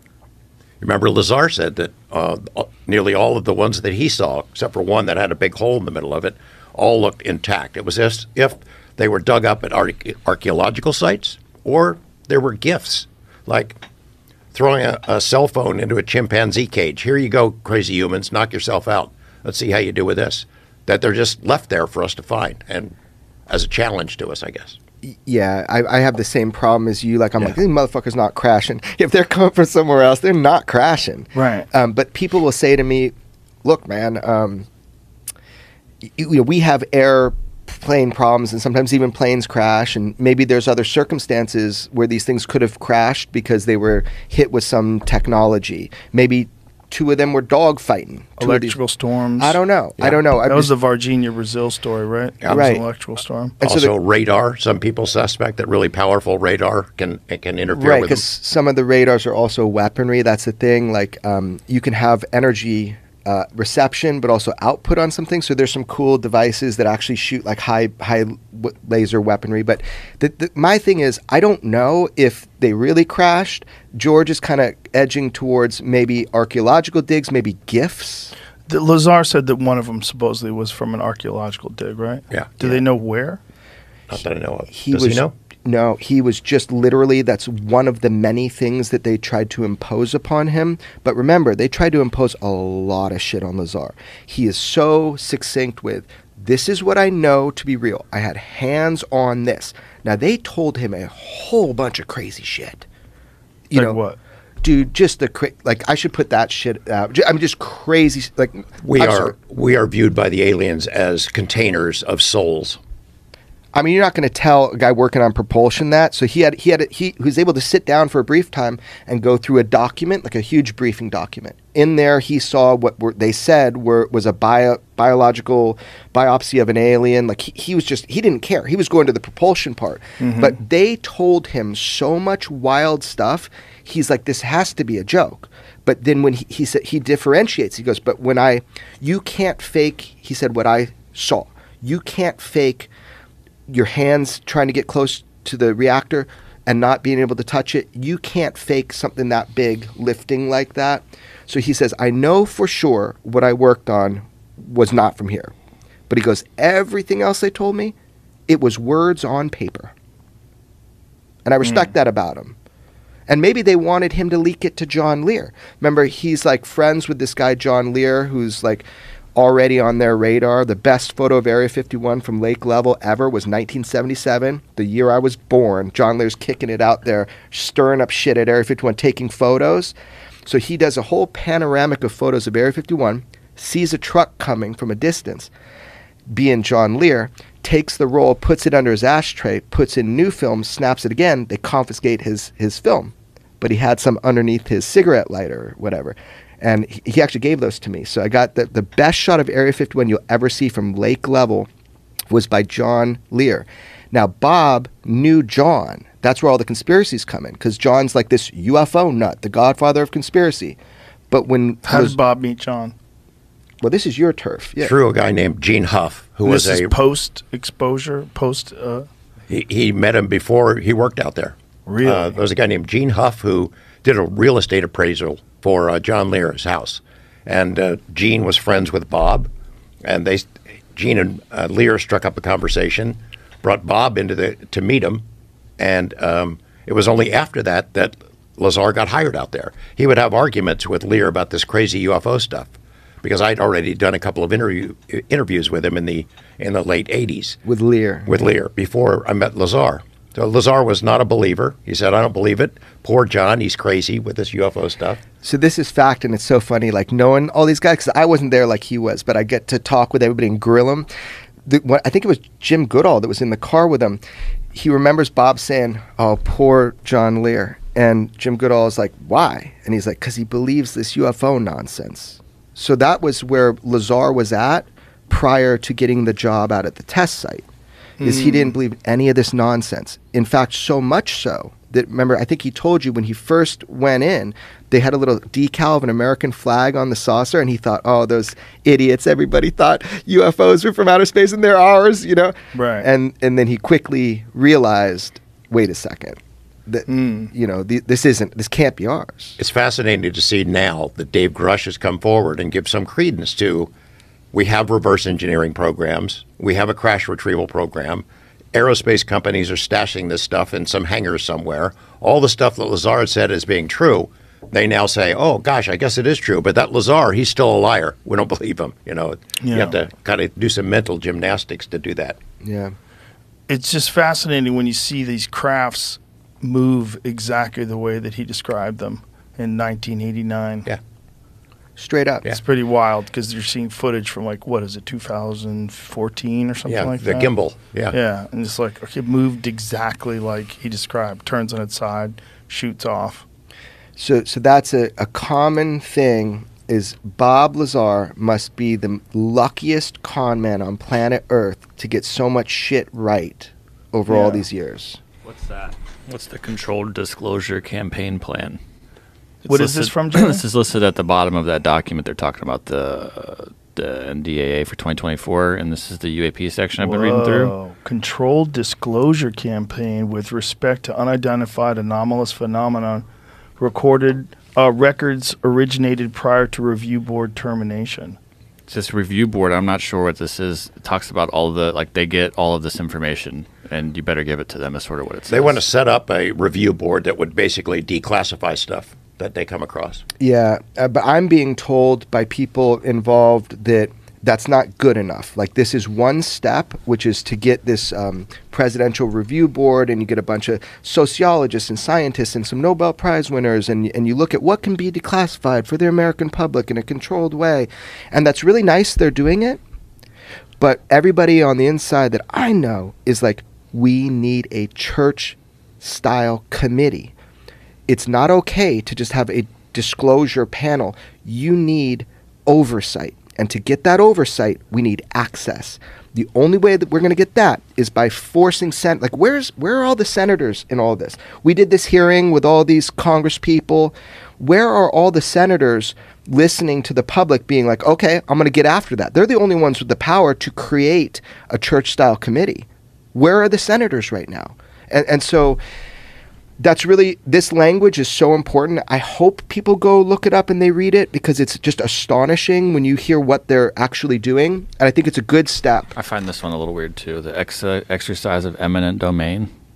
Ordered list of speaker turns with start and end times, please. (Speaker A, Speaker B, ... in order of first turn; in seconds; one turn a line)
Speaker A: 0.8-13.8
Speaker A: 14.5-22.9
Speaker A: 23.5-24.8
Speaker B: 25.0-34.7
Speaker C: 31.4-31.7
Speaker B: 36.0-48.8
Speaker C: 48.4-49.6
Speaker B: 49.4-50.7
Speaker C: 50.5-53.6
Speaker B: 52.5-52.9
Speaker B: 53.6-53.9
Speaker A: 53.6-58.2
Speaker B: 57.7-78.3
Speaker C: 78.7-83.4
Speaker A: 82.3-82.6
Speaker A: 84.1-85.3
Speaker B: 84.7-102.9
Speaker B: 103.7-104.0
Speaker C: 103.7-104.2
Speaker B: 104.6-109.3
Speaker A: 108.8-112.8
Speaker B: 113.8-142.9
Speaker C: 130.2-130.6
Speaker B: 143.7-155.5
Speaker B: 156.1-157.9
Speaker B: 158.5-159.9
Speaker B: 161.4-162.6
Speaker C: 161.6-161.9
Speaker B: 163.3-185.5
Speaker B: 186.3-201.7
Speaker B: 202.3-210.8
Speaker B: 211.3-212.2
Speaker C: 211.8-212.9
Speaker B: 213.8-214.9
Speaker A: 214.8-216.9
Speaker C: 216.4-219.1
Speaker A: 219.5-229.5
Speaker C: 221.9-222.3
Speaker A: 230.1-235.2
Speaker A: 235.8-242.7
Speaker A: 243.2-247.6
Speaker B: 247.6-248.4
Speaker A: 248.3-255.2
Speaker B: 255.4-261.1
Speaker B: 261.7-264.2
Speaker B: 264.7-277.6
Speaker C: 278.2-278.7
Speaker B: 278.2-299.6
Speaker C: 292.7-293.1
Speaker C: 297.1-297.5
Speaker A: 299.6-303.9
Speaker A: 304.5-322.4
Speaker C: 319.6-320.0
Speaker B: 322.6-322.9
Speaker C: 323.7-330.9
Speaker B: 332.0-332.5
Speaker C: 332.5-337.5
Speaker A: 336.9-338.1
Speaker C: 338.1-343.4
Speaker B: 344.2-355.2
Speaker C: 354.3-354.6
Speaker D: 355.4-358.8
Speaker D: 359.6-367.7
Speaker C: 359.7-360.6
Speaker C: 367.0-373.3
Speaker C: 373.8-378.4
Speaker D: 378.9-385.8
Speaker A: 385.5-390.2
Speaker B: 390.4-409.8
Speaker B: 410.8-417.3
Speaker B: 418.1-445.8
Speaker B: 446.8-456.1
Speaker D: 456.1-459.7